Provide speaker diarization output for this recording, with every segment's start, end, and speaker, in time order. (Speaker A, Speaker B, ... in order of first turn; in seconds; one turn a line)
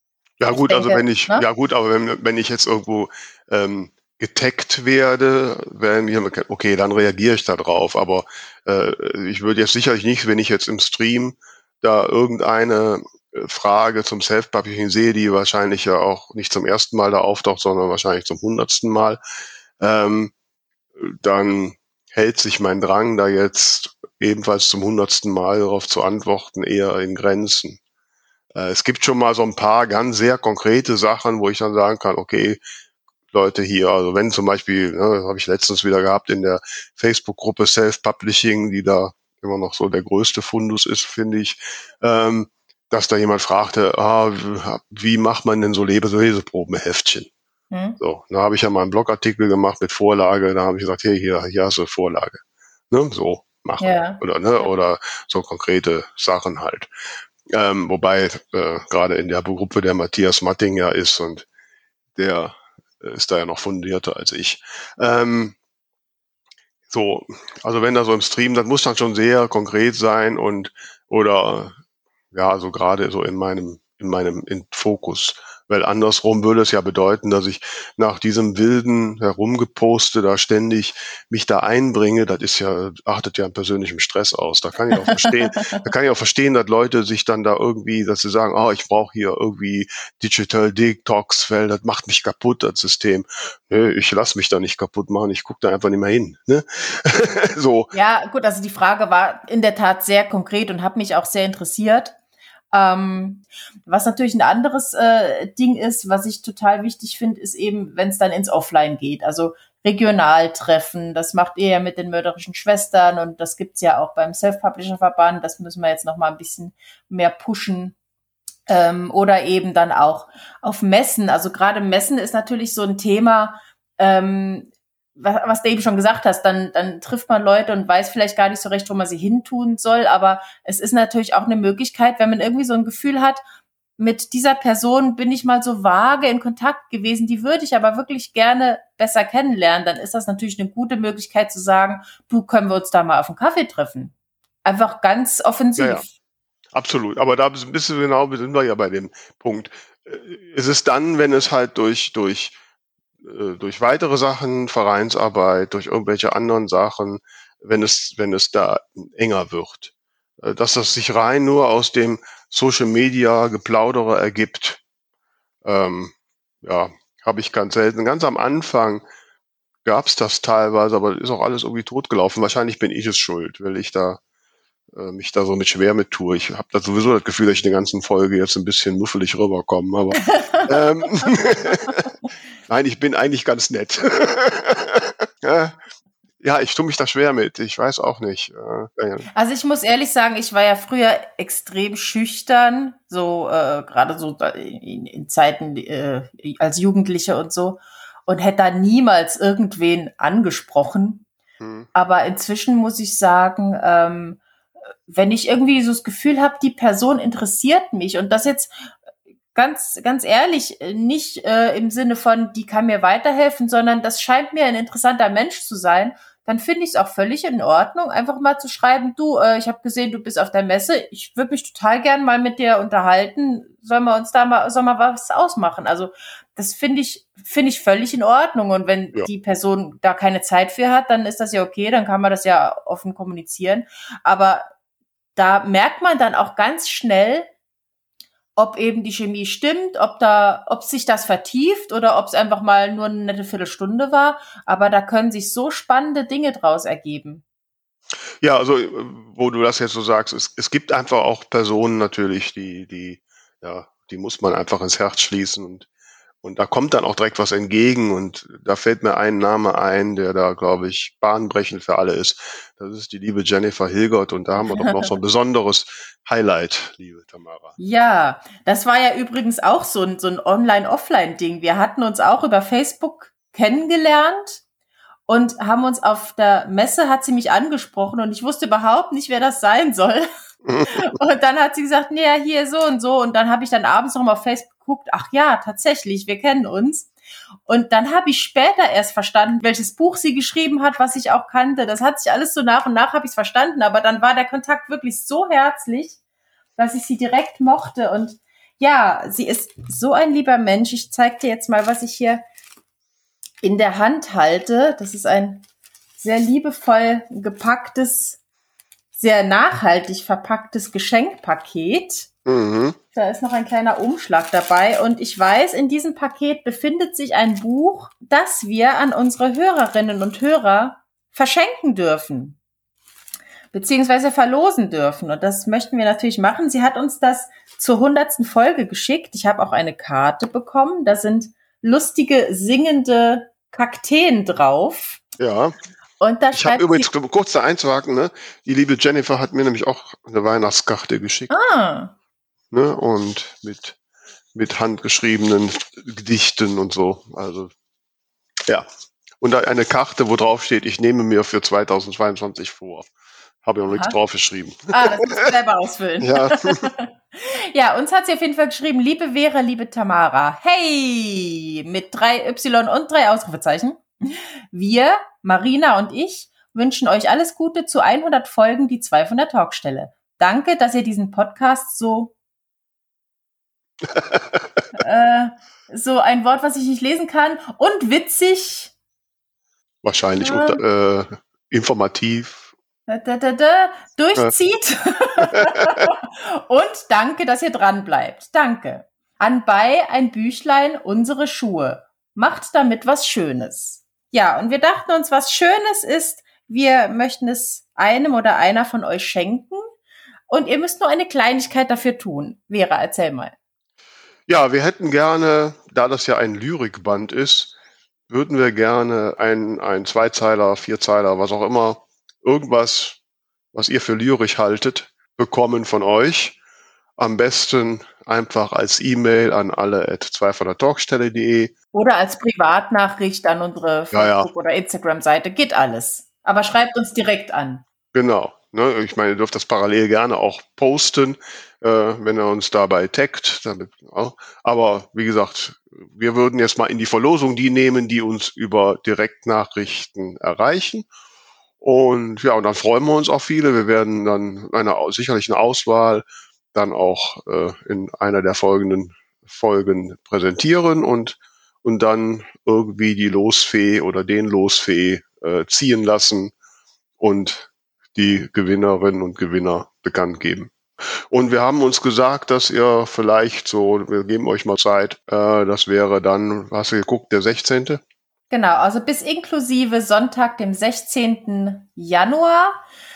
Speaker A: 0.4-19.2
Speaker B: 0.5-1.4
Speaker A: 19.8-20.3
Speaker A: 21.0-27.8
Speaker A: 28.5-32.6
Speaker A: 33.3-47.3
Speaker B: 47.7-48.0
Speaker A: 48.0-56.9
Speaker B: 53.8-54.2
Speaker A: 57.5-61.4
Speaker A: 62.1-65.5
Speaker A: 66.9-71.7
Speaker A: 72.3-97.9
Speaker B: 85.1-85.8
Speaker B: 97.9-102.1
Speaker B: 102.7-118.0
Speaker B: 118.7-133.4
Speaker B: 134.0-144.1
Speaker B: 144.6-146.1
Speaker A: 145.8-146.0
Speaker A: 146.7-152.6
Speaker A: 153.2-164.8
Speaker A: 165.6-169.0
Speaker A: 169.8-174.2
Speaker A: 174.9-182.1
Speaker A: 182.7-185.8
Speaker A: 186.4-189.3
Speaker B: 189.3-201.2
Speaker A: 201.6-201.9
Speaker B: 201.9-204.4
Speaker B: 205.1-208.9
Speaker B: 209.5-234.7
Speaker B: 235.3-237.5
Speaker B: 238.6-247.4
Speaker A: 248.4-255.9
Speaker A: 256.4-267.8
Speaker B: 267.8-274.6
Speaker B: 275.3-280.3
Speaker A: 280.6-281.0
Speaker B: 280.9-287.1
Speaker B: 287.7-296.2
Speaker B: 296.8-302.4
Speaker B: 303.6-305.6
Speaker B: 306.2-308.4
Speaker B: 309.1-312.3
Speaker A: 312.4-313.0
Speaker B: 313.1-322.6
Speaker B: 323.7-335.2
Speaker A: 335.4-335.7
Speaker B: 336.2-337.1
Speaker A: 336.5-341.5
Speaker B: 341.5-342.1
Speaker A: 342.7-344.0
Speaker A: 344.5-347.7
Speaker A: 349.4-353.1
Speaker A: 353.6-355.5
Speaker B: 353.9-354.2
Speaker B: 354.9-372.3
Speaker A: 356.2-356.9
Speaker A: 374.1-374.8
Speaker B: 374.9-378.9
Speaker A: 380.0-382.7
Speaker B: 380.4-380.8
Speaker B: 383.1-399.8
Speaker A: 385.5-386.0
Speaker B: 400.5-403.5
Speaker A: 404.5-407.7
Speaker A: 408.3-413.2
Speaker A: 413.7-416.6
Speaker A: 417.2-421.7
Speaker B: 421.9-427.8
Speaker A: 424.1-424.5
Speaker A: 428.1-441.1
Speaker A: 441.8-456.5
Speaker A: 457.2-460.7
Speaker A: 461.3-468.0
Speaker B: 468.5-472.8